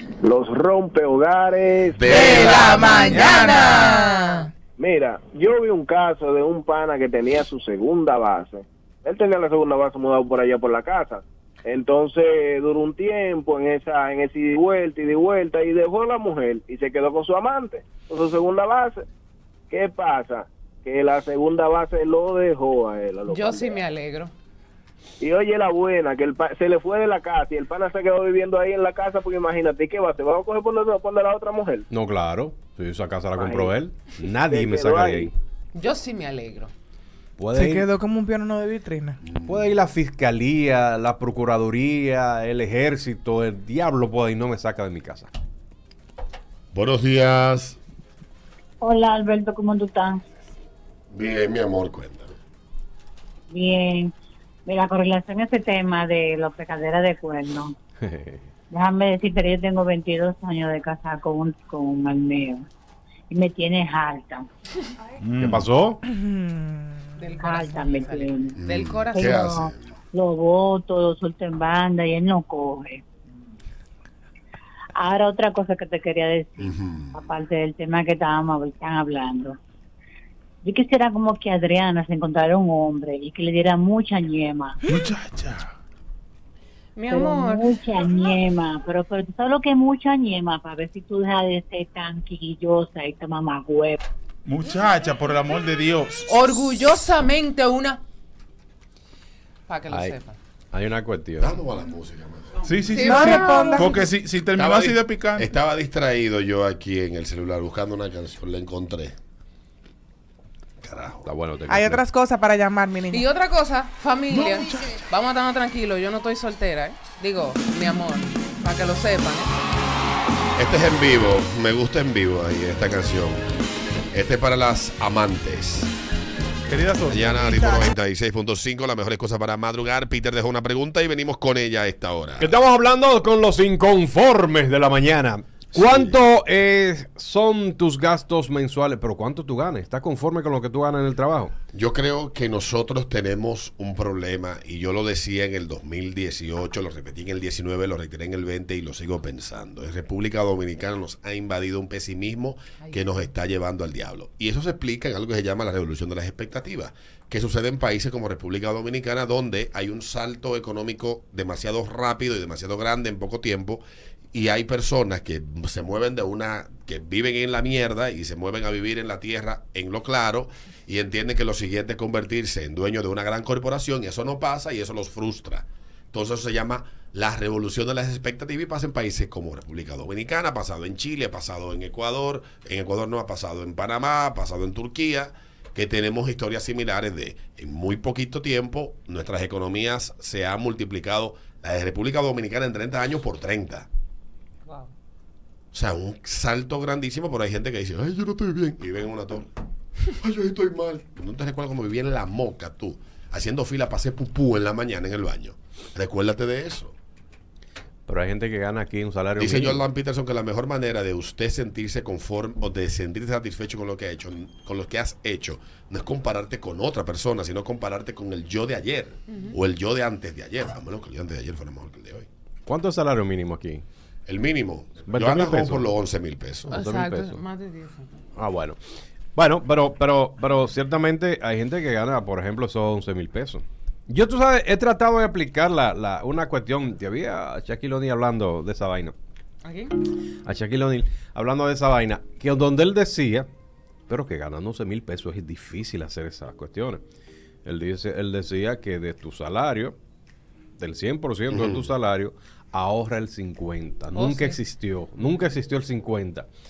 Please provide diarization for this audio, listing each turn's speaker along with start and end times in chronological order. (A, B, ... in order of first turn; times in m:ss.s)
0:00.2-0:02.6 A
0:02.0-0:03.2 B
0:02.1-0:04.5 C
0:03.0-0:03.9 D
0:03.3-0:04.4 E
0:04.8-0:19.0 A
0:19.7-0:23.8 A
0:23.3-0:24.3 E
0:25.2-0:31.9 A
0:31.9-0:35.3 F
0:33.4-0:33.7 A
0:34.5-0:35.3 A
0:35.8-0:36.7 E
0:37.4-0:37.9 F
0:37.5-0:39.2 C
0:39.2-0:39.6 B
0:39.4-0:45.3 F
0:46.7-0:47.8 B
0:48.8-0:50.2 G
0:51.1-0:52.3 B
0:53.5-0:54.1 G
0:54.7-0:57.7 G
0:58.0-0:58.5 F
0:58.7-1:02.6 G
1:03.3-1:04.5 G
1:05.2-1:05.7 D
1:05.4-1:06.0 F
1:06.0-1:07.2 C
1:07.2-1:09.5 E
1:07.4-1:08.6 G
1:08.6-1:09.9 B
1:09.1-1:13.0 G
1:15.0-1:19.6 G
1:16.6-1:17.2 B
1:20.6-1:24.8 G
1:24.9-1:25.7 D
1:27.0-1:27.8 E
1:27.1-1:34.0 G
1:34.4-1:36.3 D
1:36.3-1:38.0 E
1:39.7-1:40.4 E
1:39.9-1:40.2 F
1:40.7-1:41.6 F
1:41.4-1:42.6 B
1:42.6-1:45.5 D
1:42.9-1:44.0 E
1:43.0-1:44.0 C
1:44.5-1:49.2 B
1:50.8-1:51.3 B
1:51.2-1:52.0 F
1:51.7-1:53.3 C
1:53.1-1:59.6 E
1:54.3-1:55.0 D
2:00.6-2:03.5 B
2:04.1-2:05.9 B
2:06.7-2:07.8 D
2:07.1-2:12.5 B
2:07.4-2:07.9 C
2:12.4-2:21.5 F
2:15.7-2:16.2 B
2:21.7-3:13.9 B
3:15.7-3:19.5 B
3:20.1-3:26.9 B
3:28.1-3:29.8 F
3:29.4-3:42.3 B
3:39.3-3:39.6 E
3:42.6-3:43.8 F
3:44.3-3:46.8 B
3:45.1-3:45.9 F
3:46.7-3:47.4 F
3:46.7-3:48.1 E
3:48.4-3:48.8 F
3:49.4-3:59.1 F
3:59.6-3:59.9 E
4:00.4-4:03.5 F
4:04.1-4:07.0 F
4:07.6-4:09.9 F
4:10.8-4:16.5 F
4:11.5-4:11.9 B
4:14.2-4:14.6 E